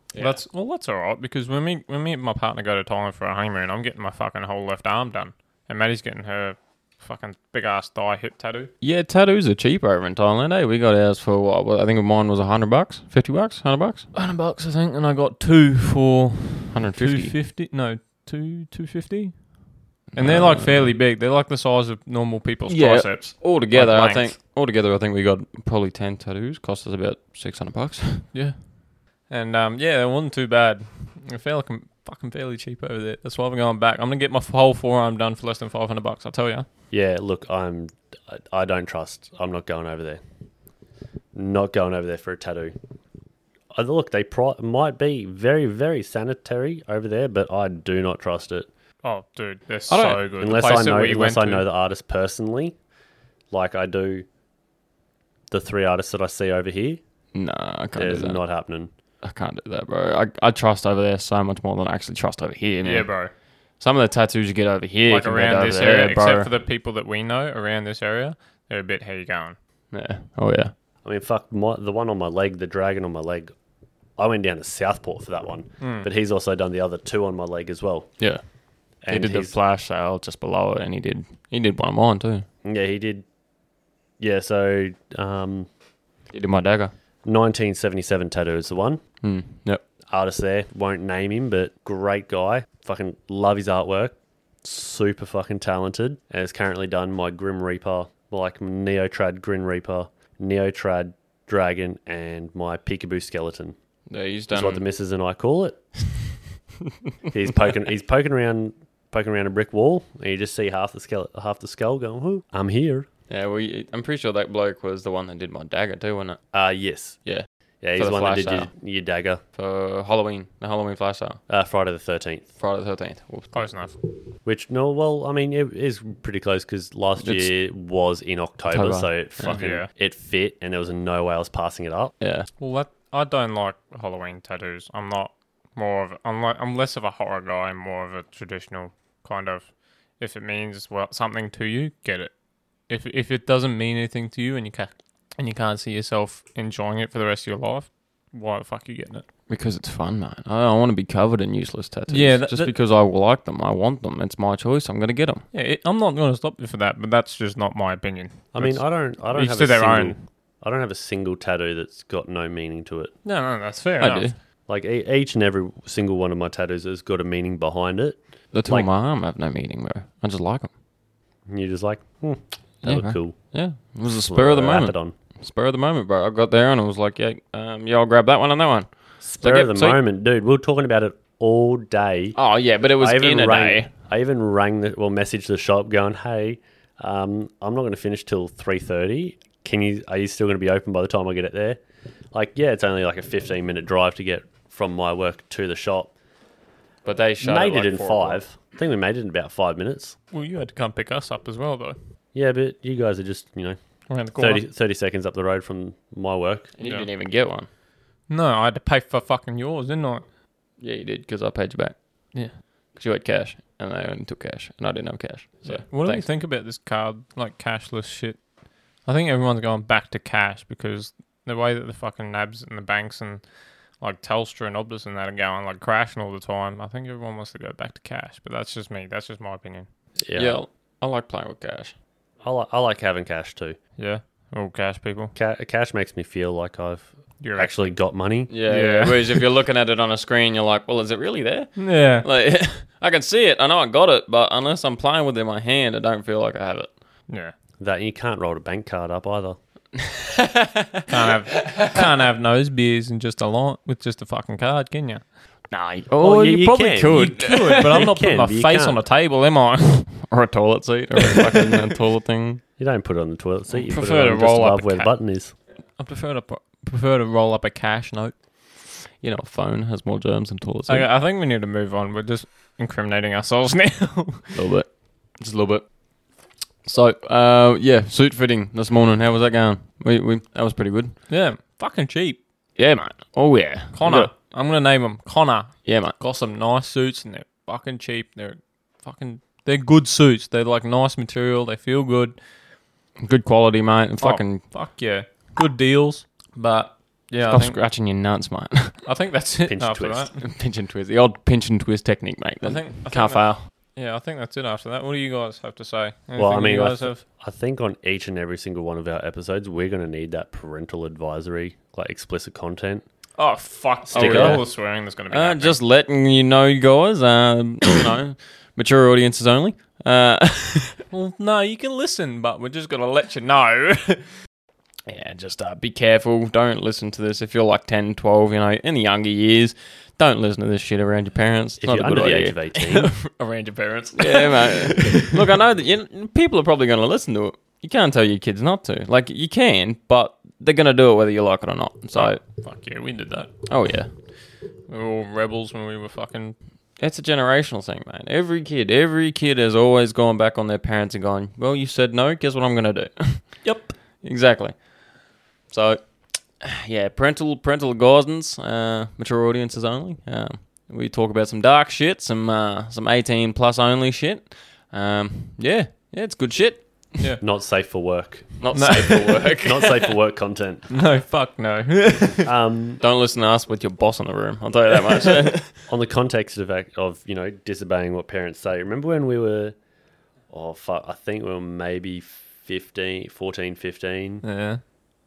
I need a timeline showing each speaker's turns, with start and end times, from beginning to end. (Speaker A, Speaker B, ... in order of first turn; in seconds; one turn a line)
Speaker A: 0.1-0.4
Speaker B: 0.2-8.7
Speaker A: 8.8-14.1
Speaker B: 14.1-19.6
Speaker A: 16.7-17.4
Speaker A: 20.1-20.9
Speaker B: 20.1-24.3
Speaker A: 22.7-28.3
Speaker B: 28.3-36.7
Speaker C: 36.9-40.2
Speaker C: 41.3-42.7
Speaker C: 43.7-48.7
Speaker B: 49.0-51.6
Speaker A: 49.9-50.2
Speaker C: 50.2-52.8
Speaker C: 53.5-54.2
Speaker C: 55.5-57.0
Speaker A: 57.3-58.4
Speaker C: 57.9-58.9
Speaker A: 59.2-63.2
Speaker B: 62.8-63.3
Speaker A: 63.8-66.5
Speaker B: 65.0-69.6
Speaker A: 69.9-70.7
Speaker C: 71.0-73.5
Speaker C: 74.2-78.3
Speaker B: 75.8-76.1
Speaker C: 79.0-79.5
Speaker A: 79.1-82.5
Speaker C: 82.6-83.2
Speaker C: 84.2-85.7
Speaker A: 86.3-86.9
Speaker C: 87.2-89.0
Speaker A: 89.2-89.8
Speaker C: 90.1-103.8
Speaker A: 104.1-104.8
Speaker C: 104.5-106.2
Speaker C: 107.3-113.1
Speaker A: 113.3-116.4
Speaker C: 116.5-117.2
Speaker A: 117.2-118.7
Speaker C: 117.8-119.4
Speaker A: 119.5-121.4
Speaker C: 121.5-122.5
Speaker A: 122.6-123.6
Speaker B: 123.5-124.0
Speaker C: 124.4-132.1
Speaker A: 127.2-127.5
Speaker A: 128.7-129.6
Speaker B: 129.4-129.9
Speaker A: 132.2-132.5
Speaker B: 132.6-142.3
Speaker B: 142.9-149.2
Speaker A: 149.5-155.4
Speaker B: 152.1-152.7
Speaker B: 155.5-160.2
Speaker C: 158.5-163.1
Speaker B: 163.2-164.3
Speaker A: 164.0-164.3
Speaker C: 164.7-168.9
Speaker A: 168.5-170.7
Speaker C: 171.5-173.5
Speaker A: 172.8-180.0
Speaker C: 174.2-175.1
Speaker C: 179.2-182.4
Speaker A: 182.3-183.9
Speaker C: 182.9-191.8
Speaker C: 192.3-196.1
Speaker A: 197.0-198.4
Speaker C: 197.4-200.2
Speaker B: 200.3-202.0
Speaker C: 202.3-203.8
Speaker B: 204.1-204.6
Speaker C: 204.3-206.7
Speaker A: 206.8-207.7
Speaker B: 206.8-207.1
Speaker B: 208.3-210.2
Speaker A: 210.8-212.2
Speaker A: 212.9-216.3
Speaker B: 215.6-229.9
Speaker C: 230.2-230.6
Speaker A: 230.3-231.9
Speaker C: 232.4-233.8
Speaker B: 234.0-235.3
Speaker C: 235.3-238.5
Speaker B: 237.4-237.9
Speaker A: 238.5-246.9
Speaker B: 238.6-239.4
Speaker B: 241.8-242.2
Speaker B: 247.3-247.5
Speaker C: 247.8-249.6
Speaker A: 250.0-251.0
Speaker B: 251.1-255.2
Speaker A: 255.7-257.9
Speaker C: 256.2-259.0
Speaker B: 257.2-260.3
Speaker A: 260.3-262.6
Speaker B: 261.2-261.8
Speaker C: 262.8-265.5
Speaker B: 263.7-265.1
Speaker B: 265.9-268.3
Speaker A: 269.2-271.1
Speaker B: 270.9-274.6
Speaker A: 274.5-275.9
Speaker A: 276.8-281.1
Speaker B: 281.3-282.4
Speaker A: 282.8-284.3
Speaker B: 283.9-292.4
Speaker A: 285.8-286.1
Speaker A: 293.2-294.6
Speaker B: 294.2-297.8
Speaker A: 297.4-299.0
Speaker B: 299.0-300.4
Speaker C: 299.7-300.3
Speaker A: 300.4-303.7
Speaker B: 302.6-307.2
Speaker C: 306.4-313.0
Speaker B: 313.4-315.8
Speaker C: 314.1-314.6
Speaker A: 314.1-321.0
Speaker B: 321.1-324.3
Speaker A: 325.1-332.6
Speaker C: 331.8-333.1
Speaker B: 332.8-335.4
Speaker A: 334.2-342.4
Speaker B: 342.1-343.6
Speaker A: 343.6-344.1
Speaker B: 344.9-346.6
Speaker A: 347.0-354.9
Speaker B: 353.6-353.9
Speaker A: 355.7-367.1
Speaker C: 367.4-368.9
Speaker A: 368.6-370.1
Speaker B: 368.7-369.5
Speaker C: 369.5-370.9
Speaker B: 370.9-372.5
Speaker C: 372.4-373.0
Speaker A: 373.0-375.7
Speaker C: 375.9-379.7
Speaker C: 380.5-384.4
Speaker B: 384.4-384.8